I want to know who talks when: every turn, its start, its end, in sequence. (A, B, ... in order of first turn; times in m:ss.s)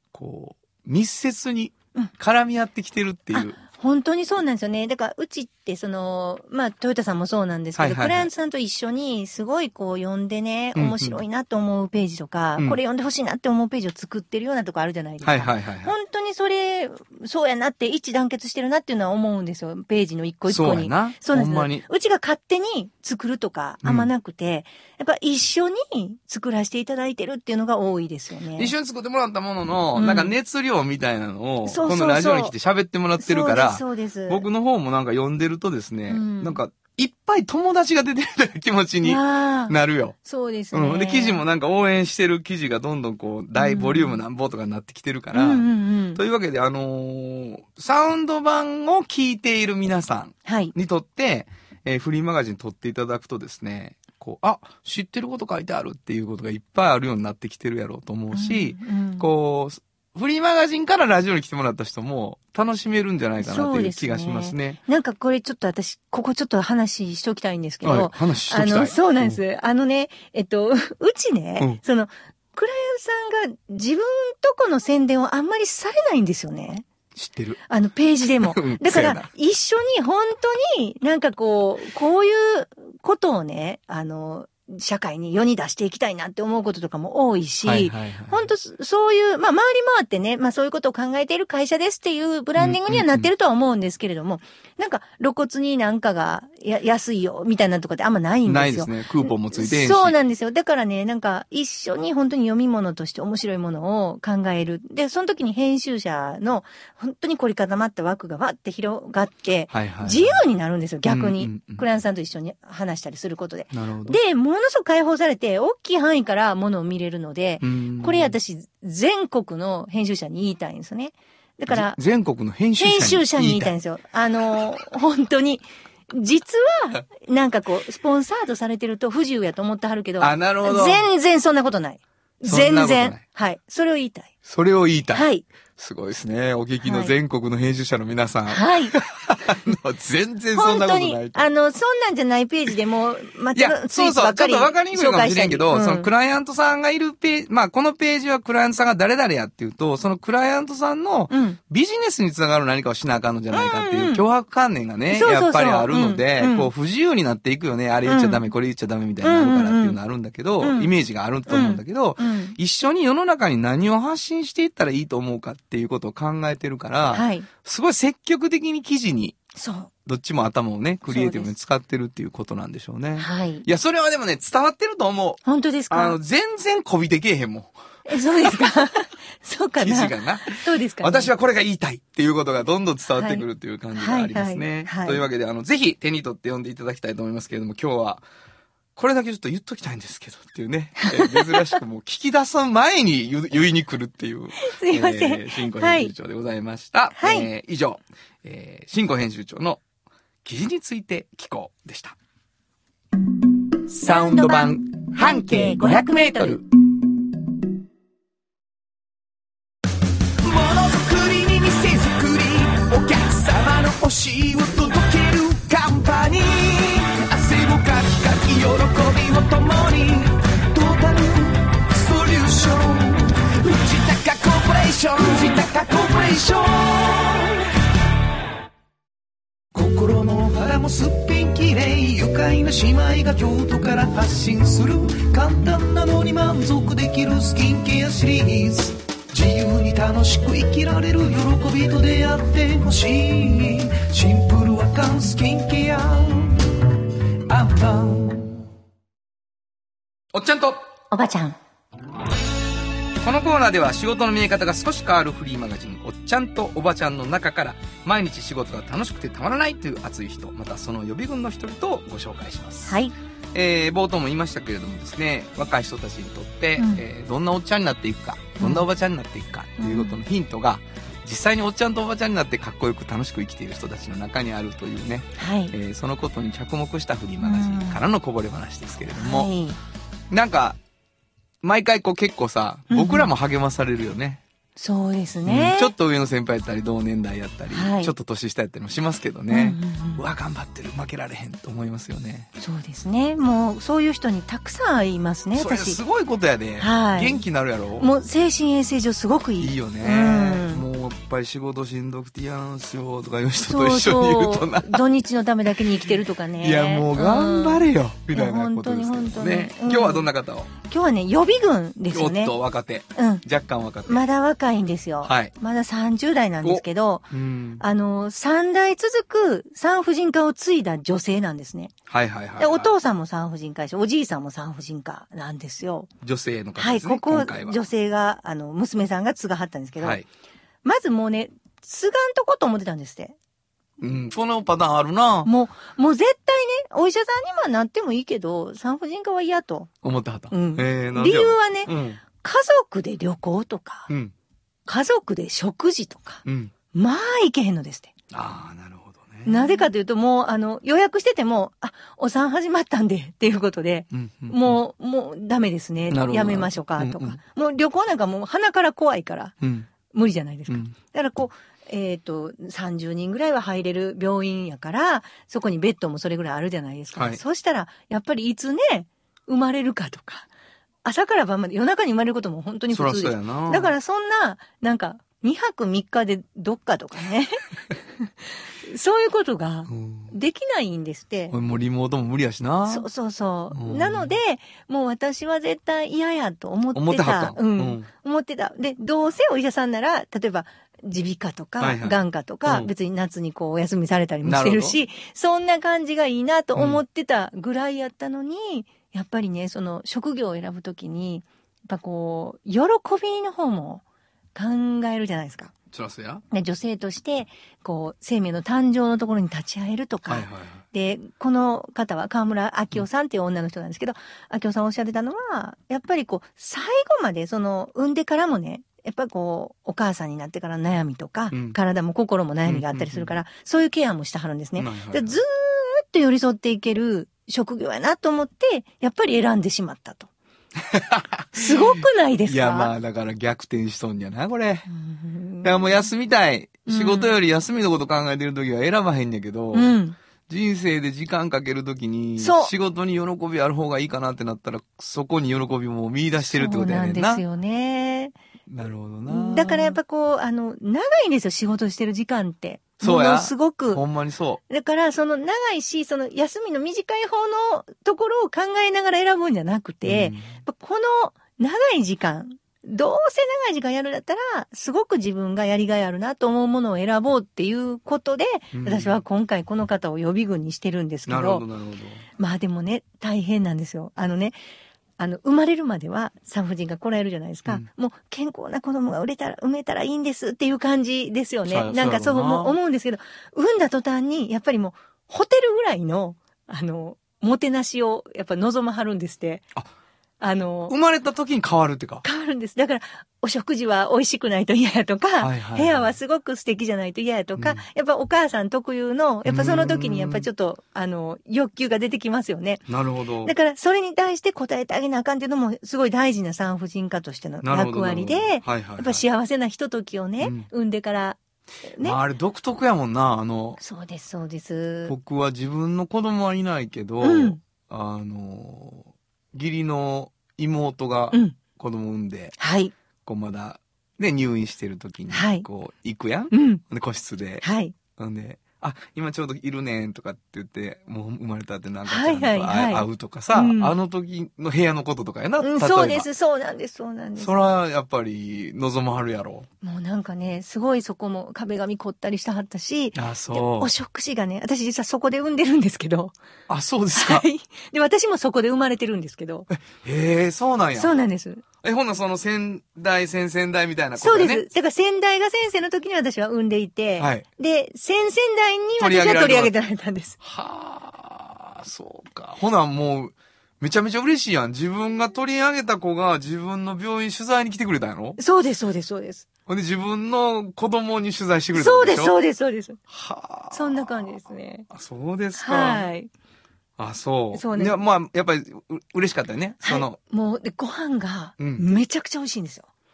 0:00.1-0:03.6 A
0:03.3-0:28.7 B
0:07.8-0:08.3 A
0:10.7-0:11.2 A
0:15.2-0:15.9 A
0:20.5-0:21.8 A
0:23.8-0:24.1 A
0:28.6-0:40.2 A
0:29.9-0:30.3 B
0:31.6-0:32.5 B
0:33.2-0:34.5 B
0:36.1-0:36.6 B
0:39.0-0:41.4 B
0:40.7-1:04.8 A
0:43.5-0:44.2 B
0:45.3-0:46.2 B
0:50.4-0:50.7 B
0:58.3-0:59.3 B
1:03.4-1:16.8 B
1:07.8-1:09.4 A
1:17.1-1:17.6 A
1:17.7-2:02.0 B
1:18.4-1:19.3 A
1:27.6-1:28.5 A
1:32.6-1:33.3 A
1:38.4-1:40.1 A
1:49.7-1:50.4 A
1:51.0-1:51.8 A
1:53.7-1:54.2 A
1:57.6-1:58.3 A
2:01.7-2:03.7 A
2:02.8-2:14.3 B
2:10.2-2:11.0 A
2:12.4-2:13.2 A
2:14.4-2:21.4 A
2:15.1-2:15.5 B
2:16.8-2:17.1 B
2:18.5-2:19.0 B
2:20.5-2:26.1 B
2:23.5-2:49.4 A
2:31.3-2:31.6 B
2:33.5-2:34.2 B
2:35.1-2:36.7 B
2:38.1-2:38.5 B
2:39.2-2:40.0 B
2:40.6-2:40.9 B
2:41.5-2:42.6 B
2:47.1-2:47.5 B
2:49.6-2:49.9 B
2:50.0-2:58.8 A
2:51.1-2:51.5 B
2:53.2-2:53.6 B
2:55.4-2:56.2 B
2:58.0-3:01.3 B
2:59.8-3:08.2 A
3:03.1-3:03.4 B
3:04.0-3:05.2 B
3:09.0-3:19.8 A
3:11.0-3:11.8 B
3:14.6-3:16.1 B
3:17.2-3:17.5 B
3:20.4-3:22.2 A
3:23.9-3:26.6 B
3:24.0-3:26.6 A
3:30.4-3:47.7 C
3:49.7-4:06.7 C
4:07.5-4:08.5 C
4:10.3-4:10.8 A
4:11.1-4:11.6 B
4:13.2-4:23.0 A
4:22.9-4:23.1 B
4:23.5-4:39.5 A
4:28.6-4:28.8 B
4:29.8-4:30.2 B
4:35.4-4:35.7 B
4:37.4-4:38.0 B
4:39.1-4:39.8 B
4:40.3-4:40.8 A
4:41.6-4:44.4 A
4:42.9-4:43.3 B
4:44.8-4:45.9 B
4:45.4-4:52.5 A
4:47.7-4:48.1 B
4:49.5-4:50.2 B
4:52.6-4:56.0 B
4:55.5-4:58.1 A
4:56.8-4:57.4 B
4:58.0-5:00.8 B
4:59.6-5:05.0 A
5:03.6-5:10.3 B
5:06.6-5:10.7 A
5:10.9-5:12.5 B
5:12.1-5:14.2 A
5:13.2-5:13.4 B
5:14.1-5:17.3 B
5:15.2-5:15.5 A
5:16.6-5:17.8 A
5:17.8-5:21.9 B
5:22.1-5:22.9 A
5:22.6-5:26.1 B
5:26.2-5:27.8 A
5:26.8-5:30.2 B
5:30.0-5:30.2 A
5:30.8-5:33.4 B
5:34.0-5:35.5 A
5:35.4-5:39.9 B
5:40.0-5:42.2 A
5:40.5-5:44.1 B
5:44.1-5:44.3 A
5:44.8-5:48.1 B
5:46.4-5:46.7 A
5:48.3-5:49.6 A
5:49.4-5:59.5 B
5:54.1-5:54.8 A
5:56.1-5:57.4 A
5:59.6-5:59.9 A
6:00.1-6:10.5 B
6:00.7-6:00.9 A
6:07.1-6:07.4 A
6:11.0-6:17.6 B
6:12.9-6:13.9 A
6:18.2-6:21.6 B
6:19.9-6:20.3 A
6:21.5-6:23.1 A
6:22.9-6:44.0 B
6:23.7-6:24.3 A
6:26.9-6:28.1 A
6:31.8-6:32.9 A
6:34.4-6:35.0 A
6:44.5-6:45.7 B
6:45.9-6:46.4 A
6:46.5-7:10.3 B
6:50.3-6:50.8 A
7:01.5-7:01.8 A
7:02.6-7:03.3 A
7:04.8-7:05.4 A
7:10.8-7:11.9 A
7:11.5-7:12.9 B
7:12.5-7:14.9 A
7:14.9-7:16.1 B
7:15.6-7:19.9 A
7:16.9-7:17.4 B
7:19.7-7:20.2 B
7:20.5-7:27.4 A
7:22.4-7:22.7 B
7:26.4-7:28.3 B
7:28.7-7:30.0 A
7:29.3-7:34.0 B
7:33.0-7:34.6 A
7:34.7-7:51.6 B
7:40.0-7:40.6 A
7:48.7-7:49.2 A
7:51.3-7:52.2 A
7:52.4-7:54.6 B
7:55.2-8:09.6 B
8:01.6-8:02.8 A
8:10.4-8:10.9 B
8:10.9-8:12.2 A
8:12.2-8:22.9 B
8:15.4-8:16.1 A
8:17.6-8:17.8 A
8:19.4-8:20.5 A
8:22.9-8:23.5 A
8:23.4-8:32.2 B
8:27.6-8:29.2 A
8:30.4-8:30.7 A
8:32.0-8:33.8 A
8:33.8-8:35.1 B
8:35.1-8:42.6 A
8:37.2-8:37.6 B
8:41.3-8:41.6 B
8:42.6-8:42.9 B
8:43.2-8:47.6 A
8:45.3-8:45.6 B
8:46.5-8:46.8 B
8:47.6-8:47.9 B
8:48.1-8:56.3 A
8:52.0-8:53.9 B
8:55.6-8:57.6 B
8:57.4-8:59.7 A
8:59.8-9:06.3 B
9:03.1-9:03.9 A
9:06.7-9:07.4 A
9:07.1-9:09.7 B
9:09.7-9:11.2 A
9:10.9-9:11.6 B
9:11.8-9:14.6 A
9:14.2-9:20.4 B
9:17.2-9:17.4 A
9:19.0-9:19.7 A
9:20.4-9:28.4 A
9:28.4-9:29.5 B
9:29.7-9:32.3 A
9:31.7-9:33.0 B
9:33.1-9:34.4 A
9:33.7-9:34.9 B
9:34.9-9:36.1 A
9:35.6-9:36.3 B
9:37.0-9:40.2 A
9:37.5-9:38.0 B
9:39.8-9:42.9 B
9:41.6-9:41.8 A